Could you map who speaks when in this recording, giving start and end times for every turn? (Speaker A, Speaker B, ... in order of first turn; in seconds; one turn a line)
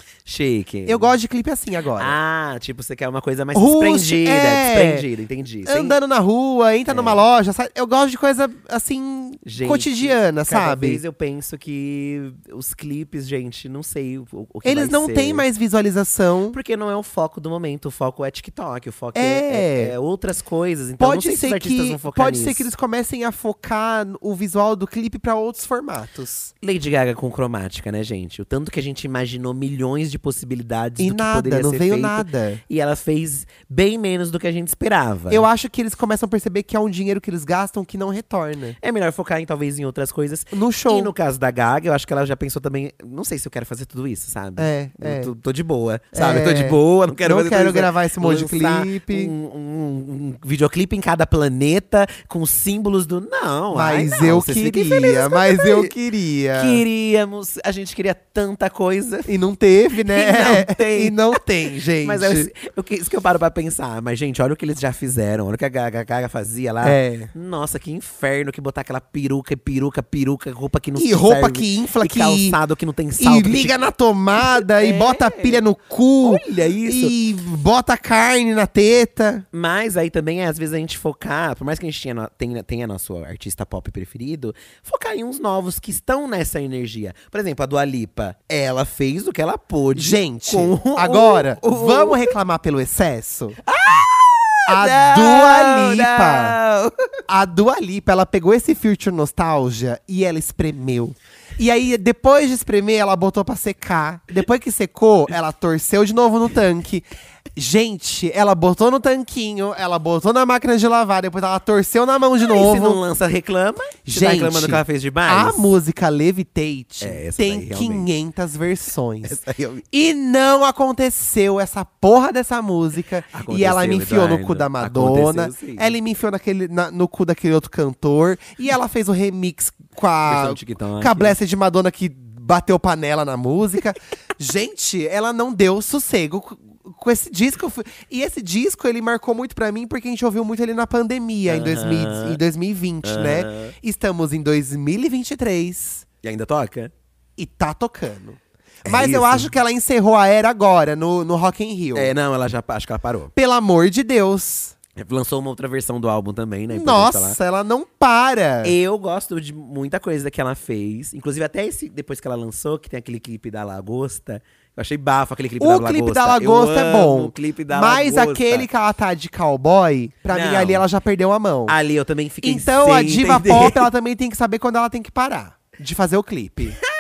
Speaker A: 0.3-1.1
Speaker B: 0.9-2.2
Speaker A: 1.9-6.0
Speaker B: 3.5-5.1
Speaker B: 5.7-11.0
Speaker A: 6.9-7.2
Speaker A: 9.4-15.4
Speaker B: 14.6-16.6
Speaker A: 16.5-22.7
Speaker B: 19.1-19.9
Speaker B: 21.0-26.5
Speaker A: 26.6-35.5
Speaker B: 31.0-32.6
Speaker B: 35.3-38.8
Speaker A: 38.8-55.9
Speaker B: 40.5-41.1
Speaker B: 44.6-45.3
Speaker B: 46.1-49.3
Speaker B: 53.7-56.8
Speaker A: 56.5-59.4
Speaker B: 59.3-62.5
Speaker A: 60.0-75.6
Speaker B: 66.8-67.3
Speaker B: 71.0-72.6
Speaker B: 73.2-79.5
Speaker A: 76.2-77.1
Speaker A: 79.5-92.4
Speaker B: 90.0-93.6
Speaker A: 93.6-97.0
Speaker B: 94.7-96.6
Speaker B: 97.3-113.0
Speaker A: 112.4-115.7
Speaker B: 114.1-119.4
Speaker A: 117.0-118.1
Speaker A: 119.2-119.8
Speaker B: 119.9-146.1
Speaker A: 123.3-126.0
Speaker A: 130.2-131.4
Speaker A: 141.4-142.4
Speaker A: 143.0-143.7
Speaker A: 146.2-146.9
Speaker B: 147.4-152.1
Speaker A: 148.9-149.5
Speaker A: 151.9-153.3
Speaker B: 153.3-154.7
Speaker A: 154.9-157.4
Speaker B: 156.7-158.7
Speaker A: 158.6-168.7
Speaker B: 165.6-171.8
Speaker A: 170.3-170.8
Speaker A: 171.7-173.9
Speaker B: 172.4-176.8